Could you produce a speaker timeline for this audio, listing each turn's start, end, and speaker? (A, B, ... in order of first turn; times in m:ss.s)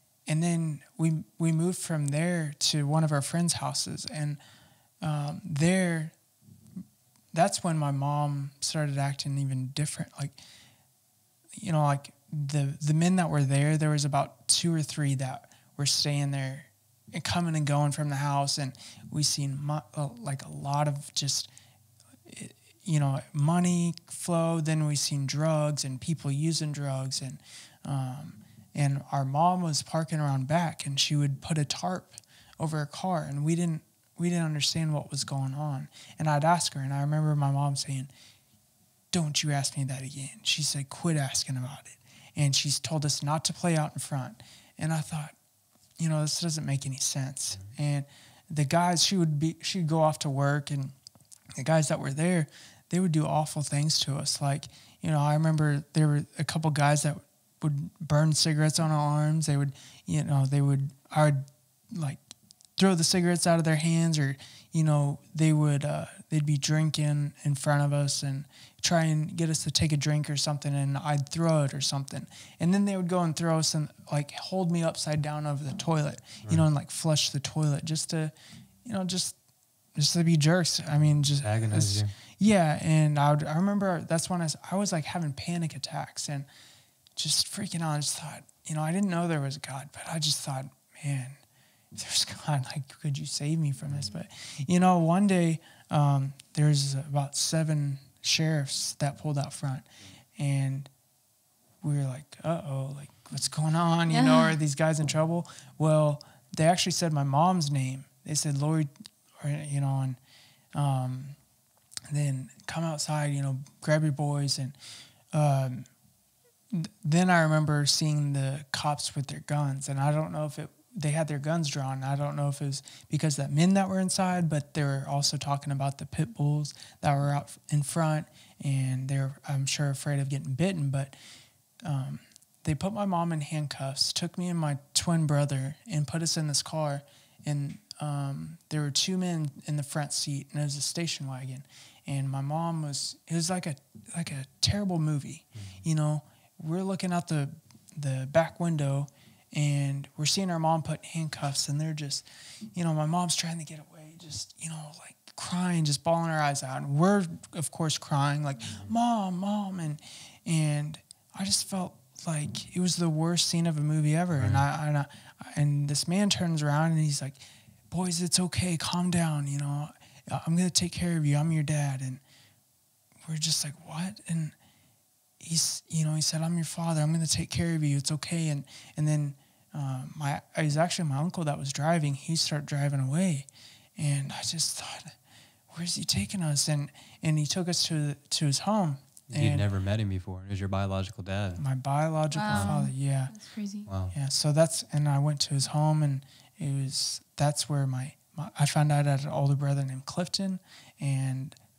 0:00.3-0:04.4 A
0:05.0-0:06.1 A
0:07.3-0:10.3 A
0:11.6-0:21.5 A
0:22.3-0:38.1 A
0:39.1-0:45.3 A
0:46.0-0:50.9 A
0:51.6-1:02.2 A
1:02.8-1:18.3 A
1:18.8-1:19.4 A
1:20.0-1:26.5 A
1:21.4-1:22.1 B
1:27.2-1:31.4 A
1:31.9-1:39.8 A
1:40.4-1:40.9 A
1:41.8-1:50.2 A
1:44.1-1:44.6 C
1:50.7-1:51.4 A
1:52.1-1:54.8 A
1:55.3-1:55.9 A
1:56.7-2:11.1 A
2:11.8-2:47.4 A
2:44.3-2:44.6 B
2:47.9-2:52.2 A
2:53.2-2:54.5 A
2:55.4-3:05.1 A
3:05.7-3:09.6 A
3:09.3-3:11.6 B
3:11.6-3:13.3 A
3:12.3-3:13.9 C
3:12.5-3:12.8 B
3:13.9-3:14.1 B
3:14.1-3:21.6 A